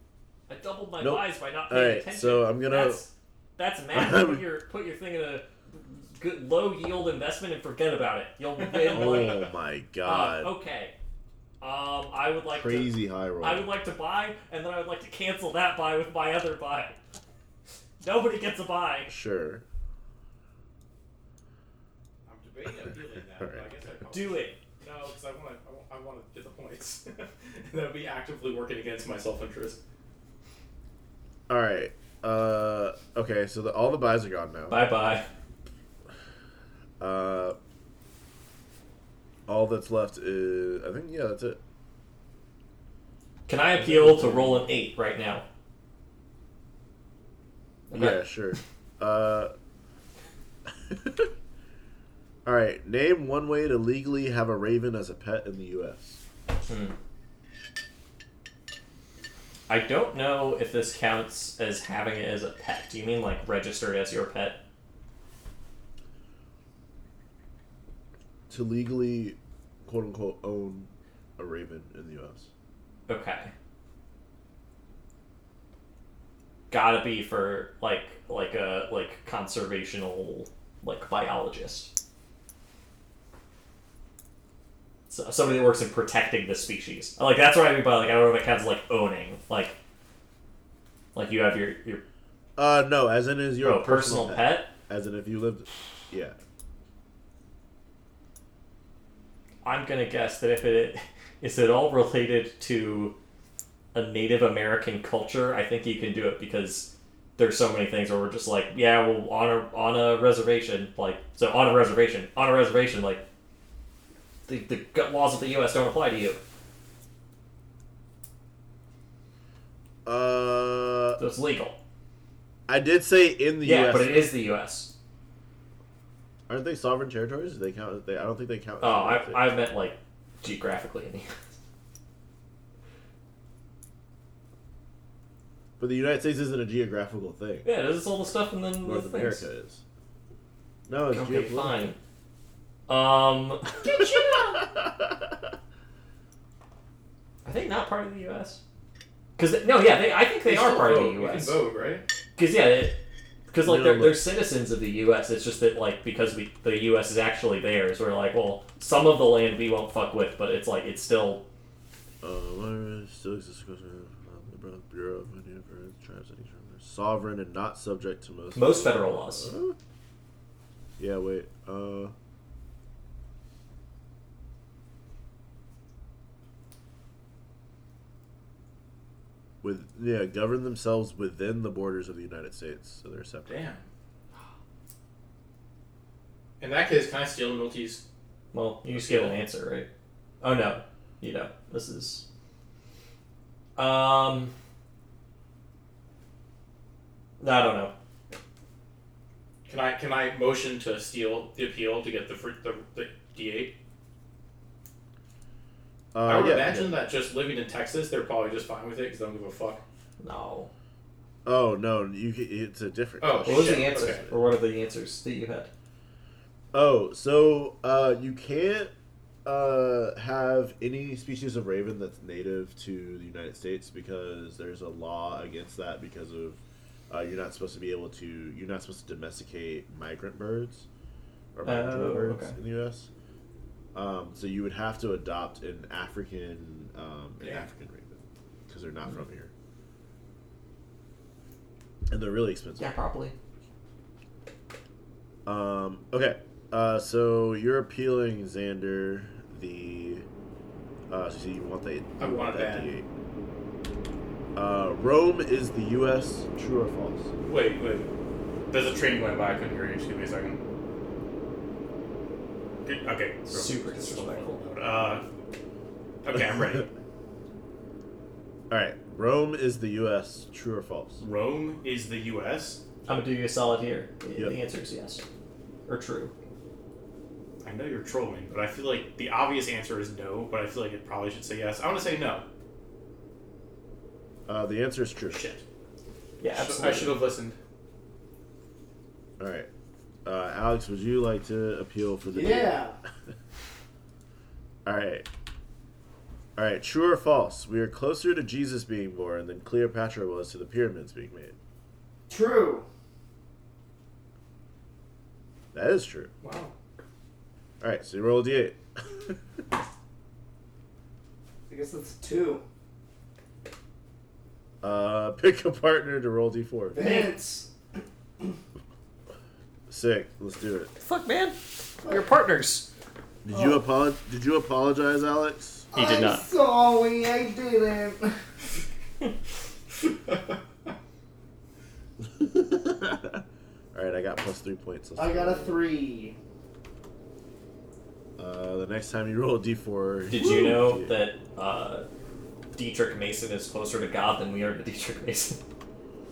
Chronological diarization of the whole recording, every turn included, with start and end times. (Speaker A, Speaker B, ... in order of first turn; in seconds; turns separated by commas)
Speaker A: 0.5-9.5, Speaker B: 1.0-3.0, Speaker B: 3.9-4.5, Speaker B: 8.8-10.5, Speaker C: 8.9-9.4, Speaker A: 10.0-11.0, Speaker A: 11.6-17.0, Speaker B: 12.5-13.7, Speaker A: 18.0-19.1, Speaker B: 19.1-19.6, Speaker C: 22.3-29.8, Speaker B: 23.4-23.7, Speaker A: 24.1-24.6, Speaker B: 31.5-34.8, Speaker A: 34.7-35.3, Speaker B: 37.0-37.6, Speaker B: 39.5-41.6, Speaker A: 43.5-45.5, Speaker B: 43.8-44.7, Speaker A: 47.9-48.3, Speaker B: 47.9-49.5, Speaker B: 50.9-51.3, Speaker B: 52.5-56.2, Speaker A: 56.7-57.0, Speaker A: 59.7-64.6, Speaker B: 68.5-72.5, Speaker A: 73.1-73.5, Speaker A: 76.7-81.9, Speaker A: 85.1-89.8, Speaker A: 91.2-92.0, Speaker B: 92.6-96.4, Speaker A: 93.6-94.7, Speaker A: 99.6-103.2, Speaker A: 103.9-113.2, Speaker A: 114.5-116.4, Speaker B: 120.0-121.2, Speaker A: 121.2-121.8, Speaker B: 122.7-124.3, Speaker A: 123.6-124.9, Speaker B: 126.5-129.5, Speaker A: 128.8-131.3, Speaker B: 135.8-137.7, Speaker A: 137.6-139.5, Speaker B: 138.8-139.8, Speaker B: 140.9-141.8, Speaker A: 141.1-142.0, Speaker A: 142.9-144.6, Speaker B: 143.9-145.0, Speaker A: 147.4-148.6, Speaker A: 149.4-151.6, Speaker C: 150.4-152.1, Speaker A: 152.4-161.5, Speaker B: 153.7-154.2, Speaker B: 162.2-169.8, Speaker A: 168.6-169.5, Speaker B: 171.0-172.1, Speaker B: 179.6-183.7, Speaker C: 183.5-183.9, Speaker C: 186.6-188.0, Speaker A: 188.5-189.9, Speaker C: 189.0-189.3, Speaker A: 190.4-192.2, Speaker A: 193.8-194.5, Speaker A: 197.4-197.9, Speaker C: 199.7-203.8, Speaker B: 206.1-207.0, Speaker C: 206.2-209.8, Speaker A: 210.2-210.7, Speaker B: 211.4-214.3, Speaker C: 213.2-214.2, Speaker A: 213.4-215.7, Speaker B: 216.7-218.9, Speaker B: 219.4-230.9, Speaker B: 231.6-233.1, Speaker A: 231.7-232.6, Speaker B: 233.9-239.5, Speaker C: 237.4-237.7, Speaker B: 242.1-242.9, Speaker A: 242.8-243.3, Speaker B: 245.5-250.3, Speaker B: 251.1-253.1, Speaker C: 252.2-252.9, Speaker B: 254.6-257.3, Speaker C: 257.4-258.1, Speaker C: 258.7-260.6, Speaker C: 262.9-265.2, Speaker A: 263.5-264.7, Speaker C: 266.2-266.9, Speaker B: 268.7-271.2, Speaker C: 271.2-272.8, Speaker A: 273.1-275.2, Speaker A: 275.9-276.3, Speaker C: 277.6-282.4, Speaker B: 284.5-285.4, Speaker C: 285.3-285.6, Speaker A: 286.4-287.2, Speaker C: 286.5-287.6, Speaker B: 289.4-289.7, Speaker B: 290.2-292.8, Speaker D: 292.3-293.0, Speaker B: 294.9-295.3, Speaker B: 296.6-301.6, Speaker D: 302.3-302.9, Speaker B: 305.7-306.3, Speaker C: 306.4-306.7, Speaker B: 307.8-309.4, Speaker D: 311.7-312.6, Speaker B: 314.8-317.1, Speaker D: 316.9-317.7, Speaker B: 319.9-320.9, Speaker A: 321.0-322.9, Speaker B: 323.4-325.9, Speaker D: 323.5-323.8, Speaker D: 325.9-328.4, Speaker A: 325.9-326.5, Speaker B: 332.2-333.4, Speaker B: 333.9-335.9, Speaker D: 335.2-336.4, Speaker B: 338.4-341.2, Speaker A: 340.3-342.1, Speaker A: 342.7-345.6